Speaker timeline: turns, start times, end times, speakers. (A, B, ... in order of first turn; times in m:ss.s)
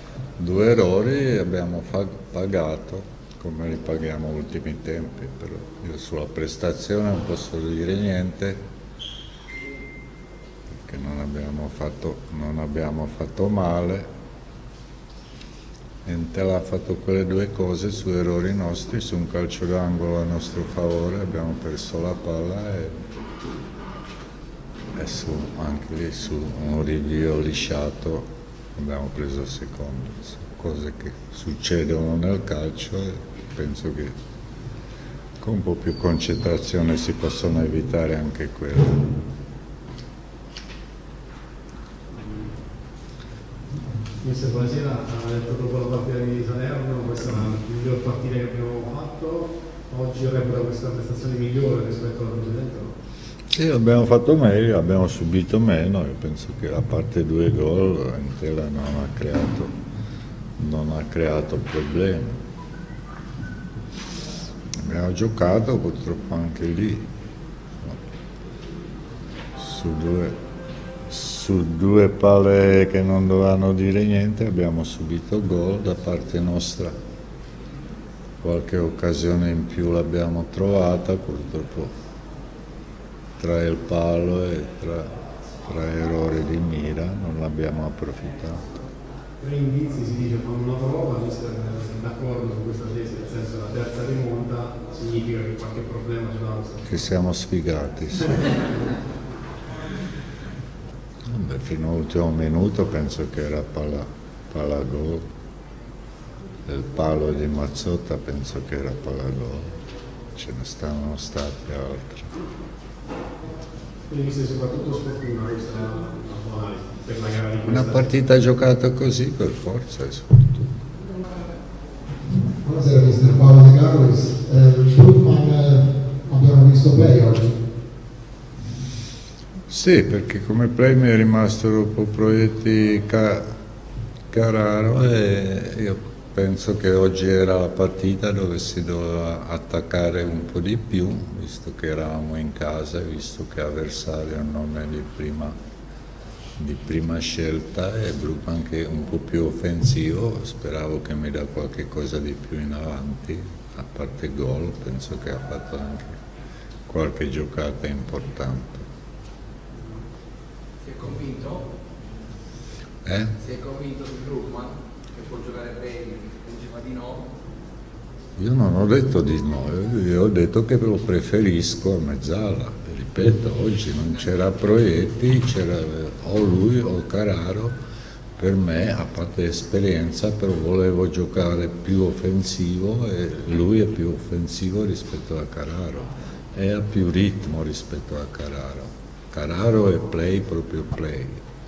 0:00.4-0:08.6 A
0:10.8-0:14.1 A
0:16.0-0:23.0 A
0:24.9-0:34.1 A
0:35.4-0:39.2 A
0:42.2-0:42.5 B
0:44.2-0:52.9 B
0:53.5-0:59.7 A
1:00.6-1:02.4 A
1:04.8-1:07.1 A
1:09.6-1:10.4 A
1:11.0-1:16.9 A
1:18.4-1:21.9 A
1:23.4-1:25.1 A
1:25.6-1:28.6 A
1:29.4-1:36.9 B
1:36.8-1:38.5 A
1:41.2-1:45.2 A
1:46.7-1:49.7 A
1:50.4-1:52.3 A
1:54.1-1:58.1 B
1:57.7-2:00.7 A
2:02.5-2:07.6 C
2:09.7-2:13.5 A
2:14.3-2:25.5 A
2:26.6-2:36.2 A
2:36.9-2:38.8 A
2:40.8-2:41.7 D
2:43.0-2:43.4 A
2:43.4-2:47.3 D
2:48.4-2:57.8 A
2:58.4-3:11.4 A